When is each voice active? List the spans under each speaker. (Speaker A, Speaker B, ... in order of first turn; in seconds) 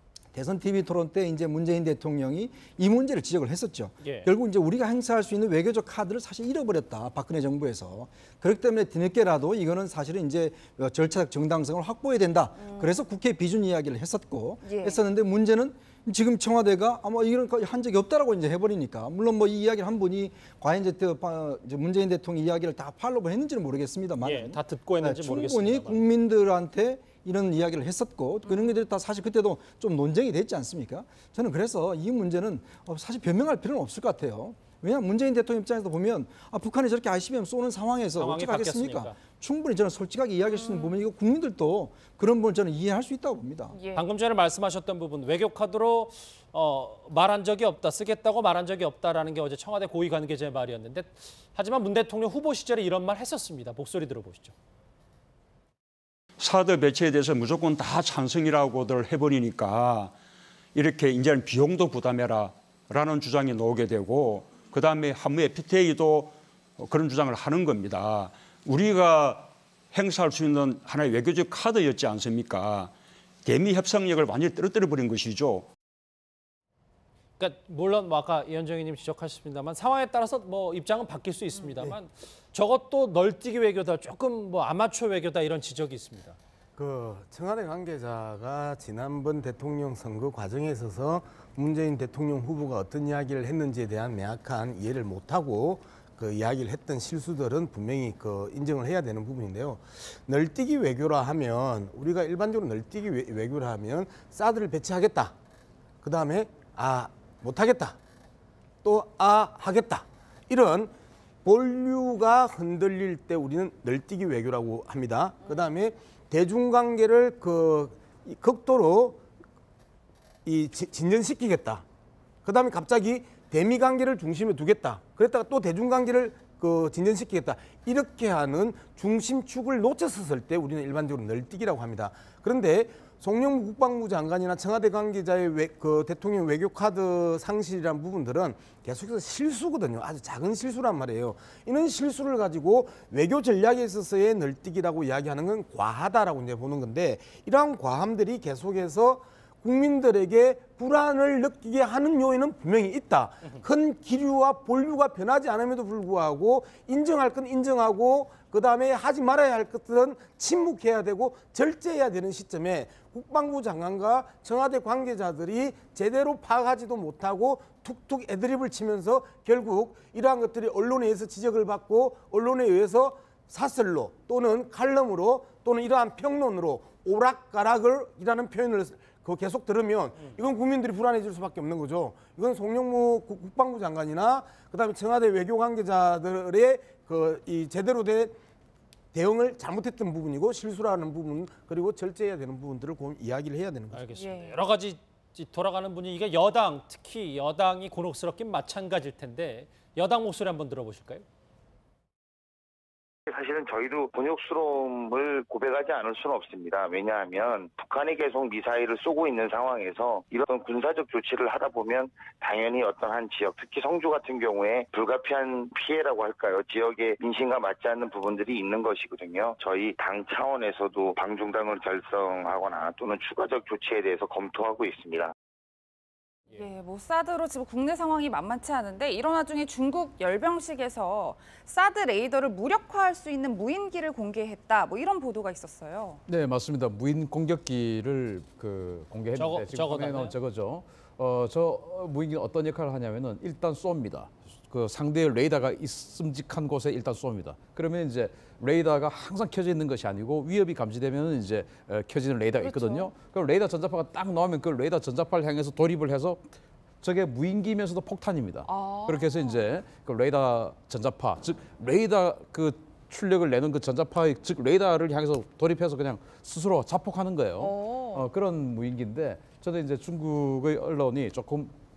Speaker A: 0.3-43.8
Speaker B: 4.0-4.3, 24.2-26.0, 38.2-39.2, 43.9-54.5, 77.4-86.4, 193.9-201.2, 239.3-240.4
Speaker C: 14.6-14.9, 194.2-194.6, 226.5-236.2, 252.6-253.1, 258.6-259.5, 267.6-268.2
Speaker D: 56.4-60.1, 60.7-72.9, 73.4-75.7
Speaker E: 86.8-105.3, 106.0-108.0, 108.8-110.9, 111.4-119.2, 120.4-121.8, 122.4-188.3, 189.1-194.1
Speaker F: 203.3-225.3
Speaker G: 236.3-256.5, 257.0-271.7